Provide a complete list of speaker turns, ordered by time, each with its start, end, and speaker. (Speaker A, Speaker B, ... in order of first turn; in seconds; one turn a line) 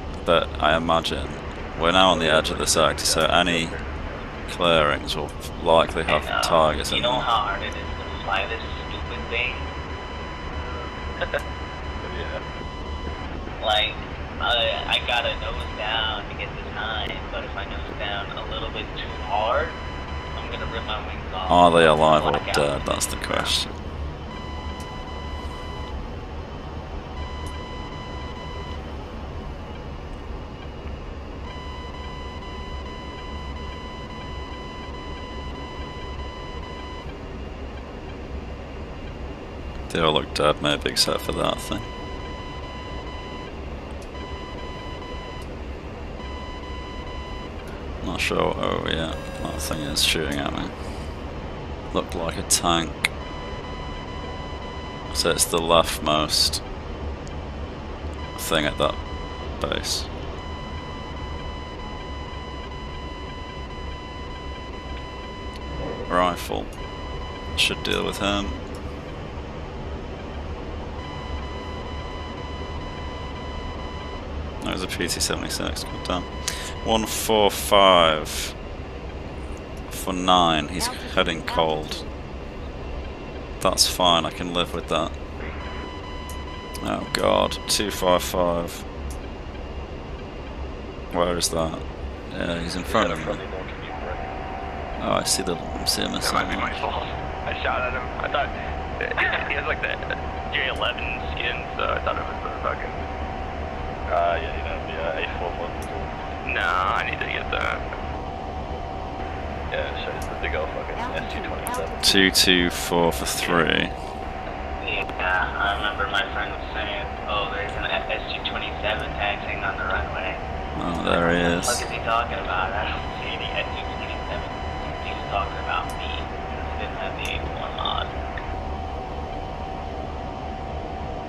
Speaker A: 0.2-3.8
Speaker B: 1.9-4.3
Speaker A: 4.5-7.3
Speaker C: 6.1-9.7
Speaker B: 12.0-12.4
Speaker C: 13.6-19.8
Speaker C: 20.3-23.6
Speaker A: 21.5-23.7
Speaker A: 39.9-41.9
Speaker A: 48.0-50.8
Speaker A: 51.9-53.1
Speaker A: 55.1-56.6
Speaker A: 58.4-59.0
Speaker A: 59.6-60.1
Speaker A: 66.1-66.7
Speaker A: 67.5-68.6
Speaker A: 74.6-78.5
Speaker A: 79.9-82.1
Speaker A: 83.6-85.2
Speaker A: 86.8-88.9
Speaker A: 91.1-93.4
Speaker B: 92.9-94.4
Speaker A: 95.0-96.8
Speaker D: 96.2-103.0
Speaker B: 104.1-106.2
Speaker D: 106.4-107.8
Speaker B: 109.7-112.0
Speaker A: 112.0-114.0
Speaker C: 113.4-113.7
Speaker C: 114.8-120.4
Speaker A: 120.8-121.8
Speaker C: 121.0-128.1